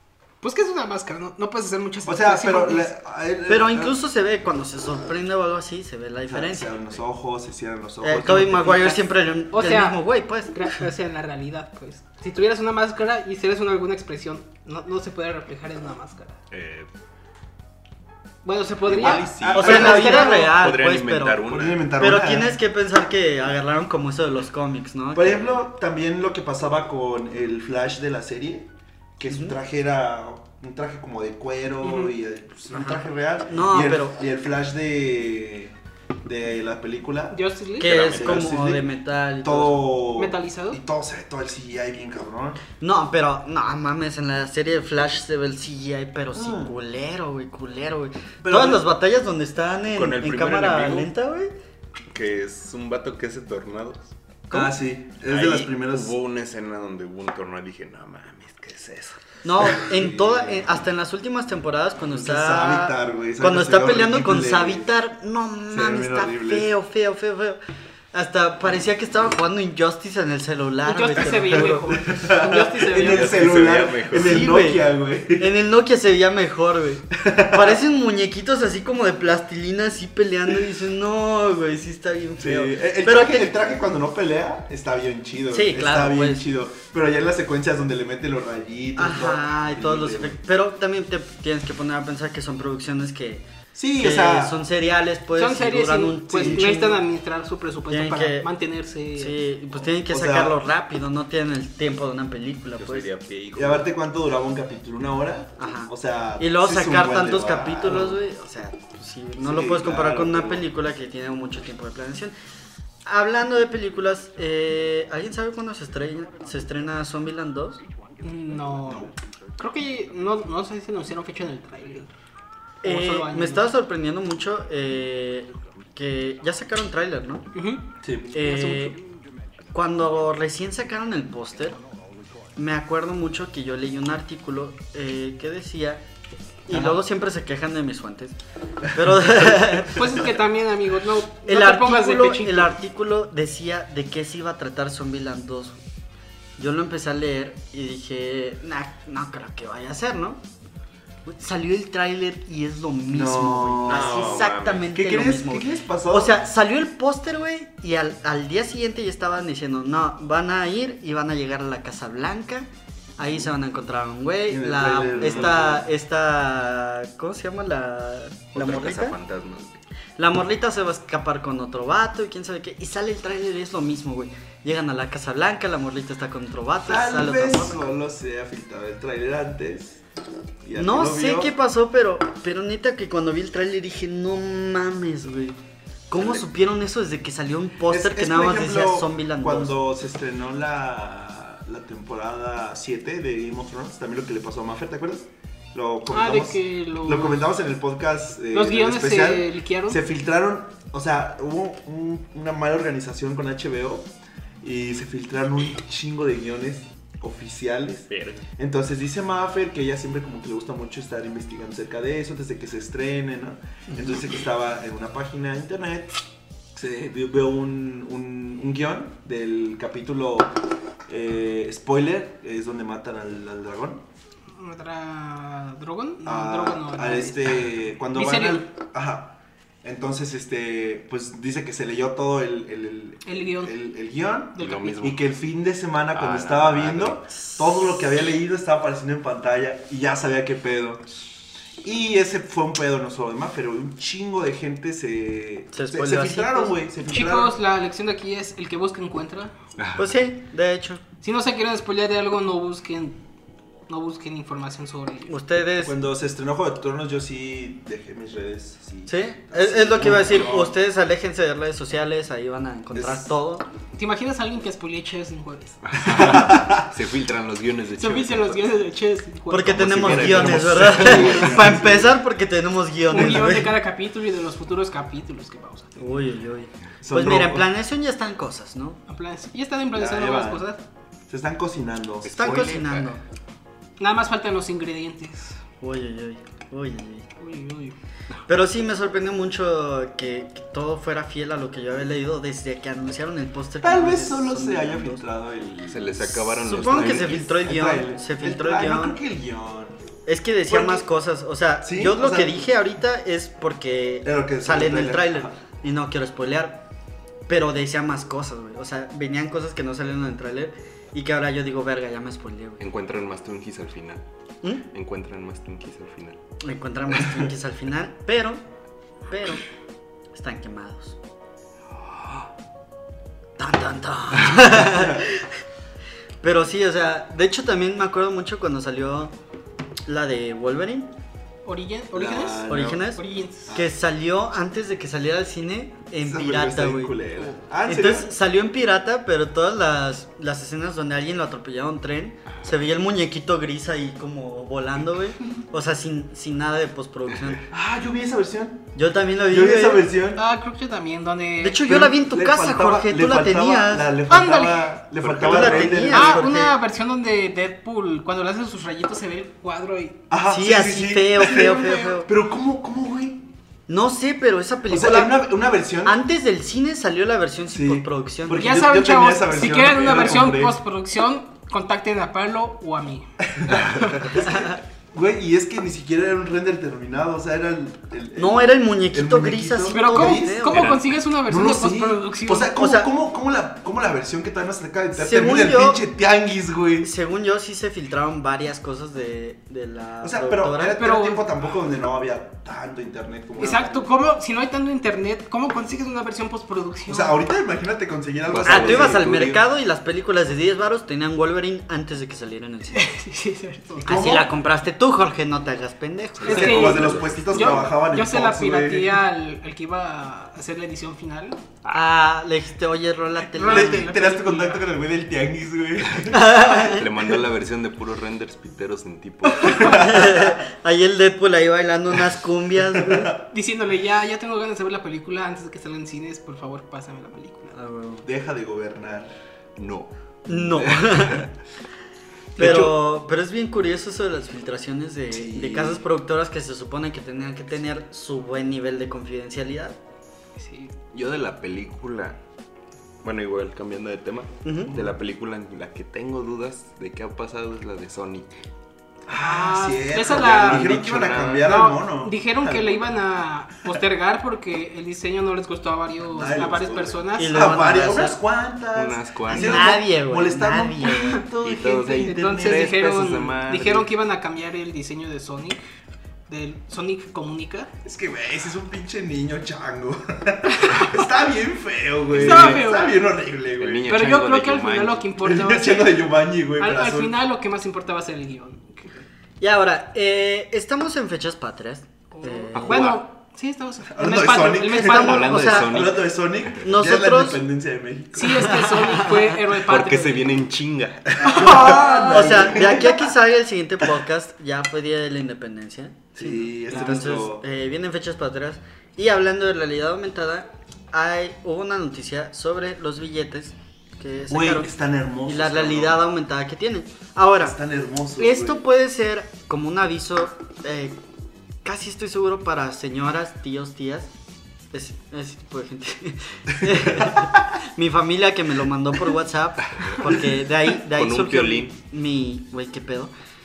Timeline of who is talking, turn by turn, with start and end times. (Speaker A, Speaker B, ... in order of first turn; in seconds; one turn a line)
Speaker A: 0.4-2.9
Speaker B: 2.0-4.0
Speaker C: 3.5-6.8
Speaker B: 6.3-9.0
Speaker C: 8.0-10.8
Speaker A: 9.5-16.4
Speaker D: 16.5-16.9
Speaker A: 18.4-20.5
Speaker D: 18.9-21.9
Speaker B: 18.9-20.3
Speaker C: 19.5-25.4
Speaker B: 21.5-22.6
Speaker B: 25.1-38.9
Speaker C: 29.3-29.6
Speaker A: 31.8-32.1
Speaker C: 32.7-34.2
Speaker A: 37.3-38.0
Speaker C: 37.8-40.0
Speaker D: 38.0-38.4
Speaker B: 39.4-42.6
Speaker A: 40.2-40.8
Speaker C: 42.8-51.5
Speaker B: 46.3-46.7
Speaker B: 48.4-48.8
Speaker D: 49.9-51.1
Speaker D: 52.1-54.1
Speaker B: 54.5-56.1
Speaker D: 55.3-59.8
Speaker C: 59.4-67.6
Speaker B: 59.6-60.7
Speaker B: 62.1-64.9
Speaker B: 65.7-66.7
Speaker C: 68.1-71.9
Speaker A: 70.8-73.6
Speaker B: 71.3-75.5
Speaker D: 73.0-74.5
Speaker C: 74.1-83.8
Speaker B: 77.2-77.8
Speaker B: 82.4-90.4
Speaker C: 85.5-86.5
Speaker C: 89.0-97.0
Speaker B: 93.7-94.6
Speaker A: 95.4-99.4
Speaker B: 96.4-96.9
Speaker C: 97.9-98.5
Speaker C: 99.2-103.1
Speaker B: 100.1-100.6
Speaker D: 102.8-103.9
Speaker B: 103.5-108.2
Speaker C: 105.6-112.3
Speaker B: 109.4-110.6
Speaker C: 113.1-117.8
Speaker A: 118.2-122.1
Speaker B: 118.9-119.1
Speaker C: 122.8-127.5
Speaker A: 122.8-123.7
Speaker A: 127.5-127.8
Speaker B: 128.0-128.4
Speaker C: 128.3-129.0
Speaker A: 128.4-128.9
Speaker C: 129.7-131.8
Speaker C: 132.6-136.0
Speaker C: 136.7-138.4
Speaker B: 136.7-137.0
Speaker C: 138.9-140.2
Speaker B: 139.0-140.1
Speaker A: 139.9-142.7
Speaker C: 141.5-145.8
Speaker C: 146.6-150.4
Speaker C: 151.3-169.2
Speaker B: 153.1-156.5
Speaker D: 153.9-154.9
Speaker B: 164.5-165.9
Speaker D: 165.2-165.7
Speaker D: 168.6-169.8
Speaker C: 170.2-177.9
Speaker B: 176.9-180.0
Speaker B: 180.6-181.5
Speaker C: 180.8-185.6
Speaker C: 186.1-189.8
Speaker B: 186.2-186.4
Speaker B: 187.9-216.2
Speaker A: 196.1-197.4
Speaker A: 198.5-200.0
Speaker D: 208.1-208.4
Speaker B: 216.8-224.0
Speaker A: 224.5-227.5
Speaker B: 226.2-241.1
Speaker A: 228.1-228.7
Speaker A: 233.2-233.8
Speaker A: 234.6-235.0
Speaker D: 234.6-235.2
Speaker D: 236.1-237.2
Speaker C: 237.5-238.0
Speaker B: 241.8-247.6
Speaker C: 245.7-246.8
Speaker A: 247.1-249.5
Speaker D: 249.8-250.1
Speaker C: 250.0-251.0
Speaker A: 251.2-253.2
Speaker A: 253.9-255.3
Speaker C: 255.3-256.0
Speaker B: 255.8-260.8
Speaker C: 259.1-263.7
Speaker B: 262.9-263.3
Speaker A: 264.0-265.8
Speaker D: 265.9-268.6
Speaker B: 266.0-266.9
Speaker A: 268.0-270.4
Speaker C: 269.5-273.8
Speaker D: 269.6-271.7
Speaker B: 270.1-272.1
Speaker A: 273.1-276.0
Speaker C: 276.0-279.0
Speaker B: 277.0-277.7
Speaker A: 279.1-280.8
Speaker B: 279.9-280.6
Speaker B: 281.3-282.7
Speaker D: 282.2-283.1
Speaker C: 282.4-283.2
Speaker A: 284.0-285.6
Speaker C: 285.8-287.3
Speaker A: 287.4-288.0
Speaker C: 288.5-295.3
Speaker B: 293.8-300.0
Speaker D: 295.9-297.5
Speaker C: 296.6-299.2
Speaker C: 300.3-306.9
Speaker B: 300.7-301.1
Speaker B: 301.8-302.7
Speaker B: 304.2-305.6
Speaker C: 307.5-312.8
Speaker D: 312.8-314.2
Speaker D: 314.9-316.4
Speaker C: 316.6-318.6
Speaker C: 319.3-319.6
Speaker C: 320.3-321.2
Speaker C: 323.6-325.6
Speaker B: 324.8-325.2
Speaker C: 326.4-329.3
Speaker C: 330.1-331.1
Speaker A: 331.6-333.7
Speaker B: 332.1-333.9
Speaker C: 332.7-347.6
Speaker B: 336.2-338.3
Speaker B: 347.7-348.9
Speaker C: 348.9-350.1
Speaker B: 349.5-350.4
Speaker A: 350.4-351.8
Speaker C: 351.6-354.1
Speaker B: 351.8-356.4
Speaker A: 354.3-354.9
Speaker D: 355.2-356.1
Speaker C: 355.4-356.8
Speaker A: 356.1-360.2
Speaker B: 360.3-363.4
Speaker C: 360.5-362.3
Speaker A: 361.4-362.2
Speaker C: 363.9-365.5
Speaker B: 364.9-366.2
Speaker C: 366.0-368.8
Speaker B: 367.7-370.8
Speaker A: 368.6-373.3
Speaker B: 373.4-387.1
Speaker D: 373.7-374.3
Speaker C: 378.4-380.9
Speaker A: 379.9-382.8
Speaker D: 380.7-381.0
Speaker C: 382.7-383.1
Speaker C: 385.2-386.1
Speaker C: 387.0-391.0
Speaker B: 390.2-394.1
Speaker A: 391.0-391.5
Speaker A: 393.6-397.4
Speaker B: 397.1-399.5
Speaker D: 398.5-399.6
Speaker C: 398.6-403.0
Speaker A: 402.9-404.3
Speaker C: 404.0-407.4
Speaker B: 404.1-404.5
Speaker D: 406.4-407.9
Speaker A: 406.4-411.6
Speaker B: 406.5-409.2
Speaker C: 411.9-414.1
Speaker A: 413.6-414.9
Speaker B: 413.6-416.9
Speaker C: 416.3-417.1
Speaker D: 416.7-420.1
Speaker B: 419.6-420.6
Speaker C: 419.7-423.3
Speaker B: 422.9-423.4
Speaker A: 423.4-427.8
Speaker C: 427.8-428.2
Speaker B: 428.2-429.3
Speaker D: 429.8-431.5
Speaker C: 430.5-431.5
Speaker D: 432.6-433.0
Speaker C: 432.6-440.0
Speaker D: 435.3-436.0
Speaker A: 440.6-440.9
Speaker D: 441.1-442.4
Speaker D: 443.2-448.5
Speaker C: 444.6-445.0
Speaker B: 449.3-453.1
Speaker A: 449.4-451.1
Speaker D: 450.2-451.8
Speaker A: 451.6-457.8
Speaker B: 456.3-463.0
Speaker C: 457.4-458.4
Speaker D: 458.9-459.9
Speaker C: 459.5-461.4
Speaker A: 461.0-461.4
Speaker D: 461.6-464.1
Speaker A: 462.2-465.8
Speaker A: 466.5-467.9
Speaker B: 468.0-474.1
Speaker A: 470.8-471.2
Speaker D: 472.3-472.9
Speaker A: 472.3-473.2
Speaker D: 473.8-475.4
Speaker A: 474.1-476.3
Speaker B: 475.4-477.4
Speaker A: 476.8-479.1
Speaker C: 479.6-483.1
Speaker A: 482.3-485.9
Speaker D: 482.7-483.2
Speaker B: 484.1-488.9
Speaker C: 484.2-486.1
Speaker D: 485.0-486.8
Speaker C: 486.8-487.6
Speaker A: 488.4-490.5
Speaker C: 488.6-489.5
Speaker D: 489.8-491.9
Speaker B: 491.4-493.3
Speaker A: 491.4-492.9
Speaker C: 491.7-504.9
Speaker B: 496.4-497.6
Speaker B: 504.5-506.2
Speaker C: 505.4-507.8
Speaker B: 507.6-508.8
Speaker C: 508.4-511.2
Speaker C: 511.8-514.3
Speaker C: 514.9-523.3
Speaker D: 520.0-521.9